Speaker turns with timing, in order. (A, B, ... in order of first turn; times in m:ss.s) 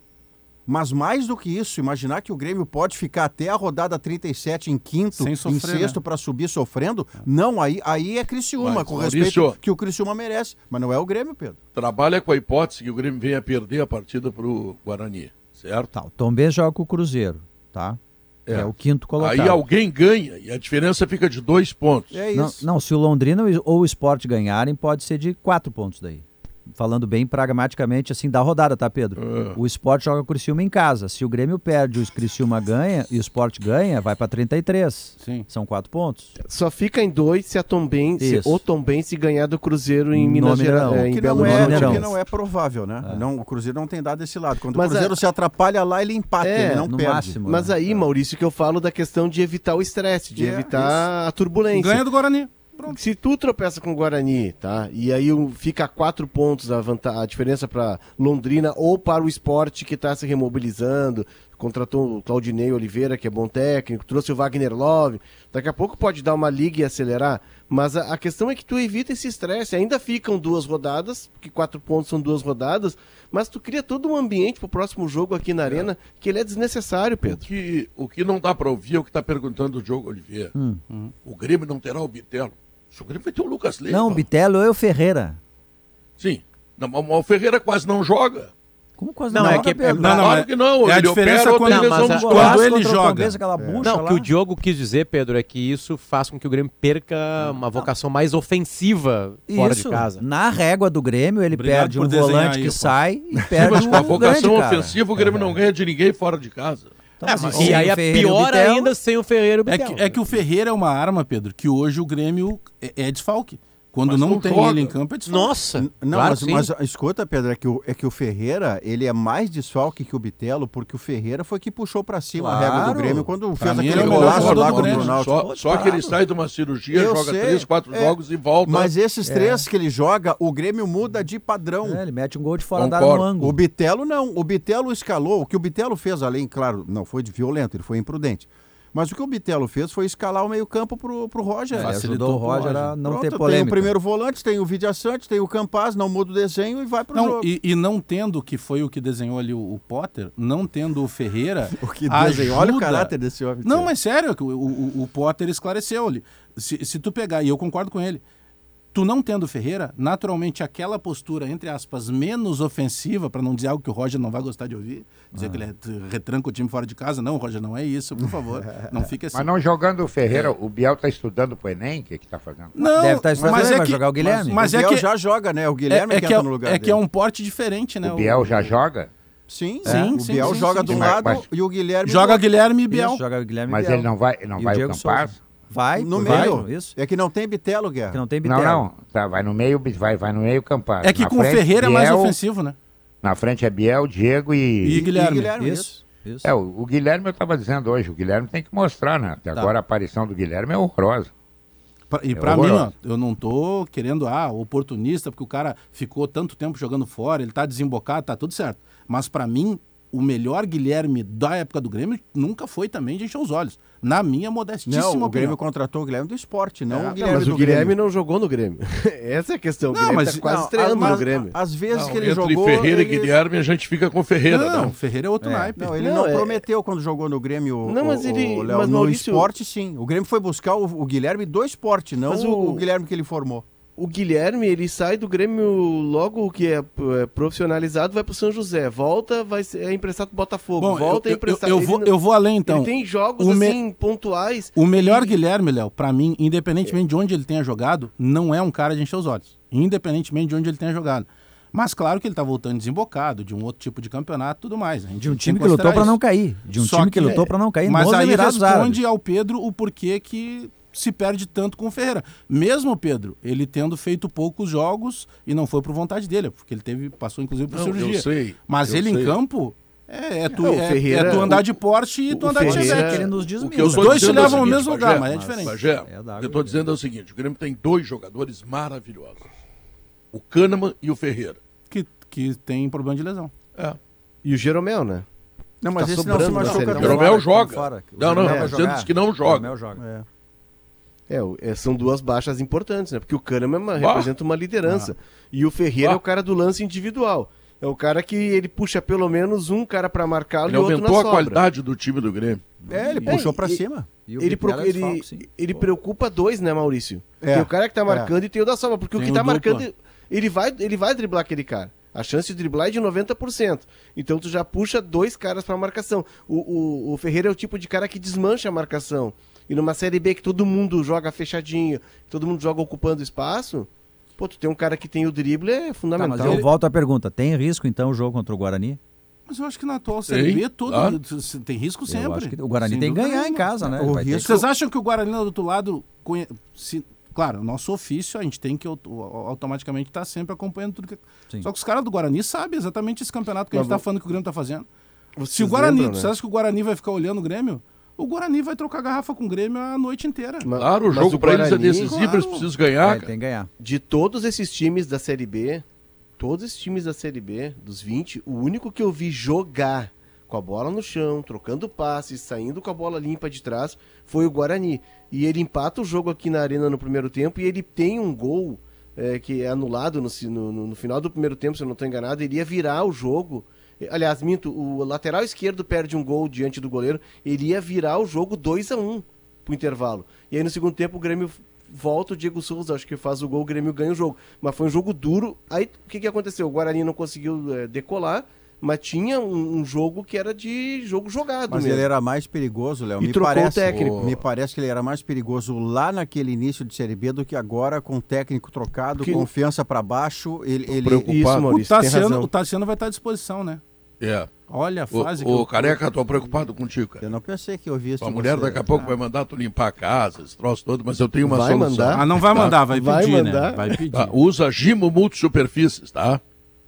0:00.6-0:11.6 A
0:05.2-0:06.0 B
0:08.6-0:09.6 C
0:11.7-0:15.9 C
0:15.9-0:19.6 D
0:18.4-0:22.1 C
0:22.1-0:22.6 A
0:22.3-0:36.3 D
0:29.2-0:29.6 C
0:35.2-0:35.4 B
0:36.4-0:42.1 E
0:38.2-0:38.6 D
0:40.1-0:42.1 D
0:41.1-0:47.4 A
0:44.7-0:45.2 E
0:46.4-0:52.0 E
0:46.9-0:47.8 D
0:50.4-0:51.0 A
0:51.7-0:53.0 B
0:52.8-1:17.4 E
1:17.2-1:20.5 C
1:20.5-1:20.8 D
1:21.2-1:24.2 C
1:23.9-1:25.4 D
1:26.2-1:28.5 C
1:29.0-1:30.3 D
1:29.3-1:30.2 F
1:29.4-1:33.4 B
1:30.0-1:32.4 C
1:31.7-1:34.3 D
1:31.8-1:32.6 F
1:33.5-1:33.9 A
1:33.8-1:40.2 F
1:39.5-1:45.6 D
1:41.5-1:43.0 B
1:43.5-1:46.9 C
1:47.2-1:48.9 D
1:47.2-1:50.1 F
1:49.6-1:55.6 B
1:54.0-1:54.9 C
1:55.3-1:56.7 F
1:55.8-2:05.3 A
2:02.3-2:03.3 D
2:03.6-2:05.1 B
2:03.8-2:08.9 C
2:04.1-2:06.2 D
2:06.9-2:12.0 A
2:09.2-2:09.7 D
2:11.8-2:13.6 D
2:12.7-2:13.3 C
2:13.4-2:27.5 A
2:21.7-2:23.9 D
2:21.7-2:22.8 B
2:27.1-2:38.2 B
2:31.7-2:33.9 A
2:38.9-2:49.5 B
2:45.3-2:45.6 D
2:48.6-2:49.1 A
2:49.3-2:52.8 G
2:50.3-2:50.5 C
2:52.7-2:55.1 B
2:52.8-2:54.6 D
2:53.3-2:57.0 A
2:55.9-2:58.7 B
2:58.0-2:59.1 G
2:59.5-3:02.5 A
2:59.8-3:01.4 B
2:59.8-3:00.6 D
3:00.6-3:01.4 G
3:02.0-3:03.2 B
3:02.9-3:06.9 D
3:03.7-3:05.4 G
3:05.9-3:08.2 A
3:06.2-3:06.6 B
3:08.1-3:08.9 D
3:08.4-3:12.4 G
3:11.0-3:12.8 B
3:13.2-3:15.0 G
3:14.8-3:15.6 B
3:14.9-3:16.0 A
3:15.6-3:16.5 D
3:16.4-3:21.3 G
3:22.1-3:35.6 B
3:22.3-3:22.9 G
3:34.8-3:38.0 A
3:36.9-3:37.5 B
3:37.2-3:41.5 E
3:39.9-3:41.3 B
3:40.4-3:43.3 A
3:41.9-3:44.9 C
3:44.5-3:46.0 B
3:45.4-3:45.7 D
3:45.8-3:53.6 A
3:46.0-3:46.6 E
3:47.8-3:49.5 E
3:52.3-3:52.8 E
3:54.0-4:02.1 E
4:00.8-4:03.8 B
4:02.6-4:05.4 E
4:04.8-4:16.2 B
4:15.2-4:19.0 D
4:16.7-4:33.3 B
4:27.7-4:29.3 C
4:30.6-4:31.7 E
4:32.3-4:33.3 E
4:32.6-4:36.9 D
4:33.6-4:39.4 C
4:33.8-4:35.8 B
4:40.3-4:41.6 C
4:41.9-4:43.5 B
4:44.4-4:45.2 E
4:45.8-4:47.2 A
4:46.0-4:47.2 E
4:46.1-4:50.0 D
4:46.7-4:49.7 C
4:48.4-4:48.7 A
4:50.0-4:50.2 A
4:51.3-5:01.6 E
4:54.0-4:54.3 C
5:00.6-5:02.6 C
5:02.8-5:03.4 D
5:02.9-5:04.1 A
5:03.2-5:03.8 E
5:04.2-5:05.8 D
5:04.4-5:26.7 E
5:07.4-5:08.3 A
5:09.2-5:09.8 B
5:26.1-5:29.0 D
5:29.5-5:44.8 B
5:30.3-5:31.2 C
5:32.1-5:34.5 D
5:33.9-5:34.7 A
5:43.7-5:44.0 E
5:45.4-5:46.3 E
5:45.5-5:50.7 B
5:50.6-5:52.2 E
5:50.7-5:53.3 C
5:52.1-5:52.5 B
5:52.2-5:53.7 D
5:53.8-5:55.8 E
5:56.4-6:32.1 E
6:31.7-6:41.4 A
6:33.2-6:34.3 E
6:33.8-6:34.4 C
6:39.2-6:39.5 E
6:40.9-6:42.5 E
6:41.3-6:41.6 C
6:41.6-6:43.8 B
6:44.2-6:44.5 C
6:44.7-6:46.0 B
6:45.1-6:47.3 C
6:47.2-6:49.1 A
6:48.2-6:52.8 C
6:51.4-6:54.0 E
6:52.1-6:54.4 B
6:54.1-6:56.4 C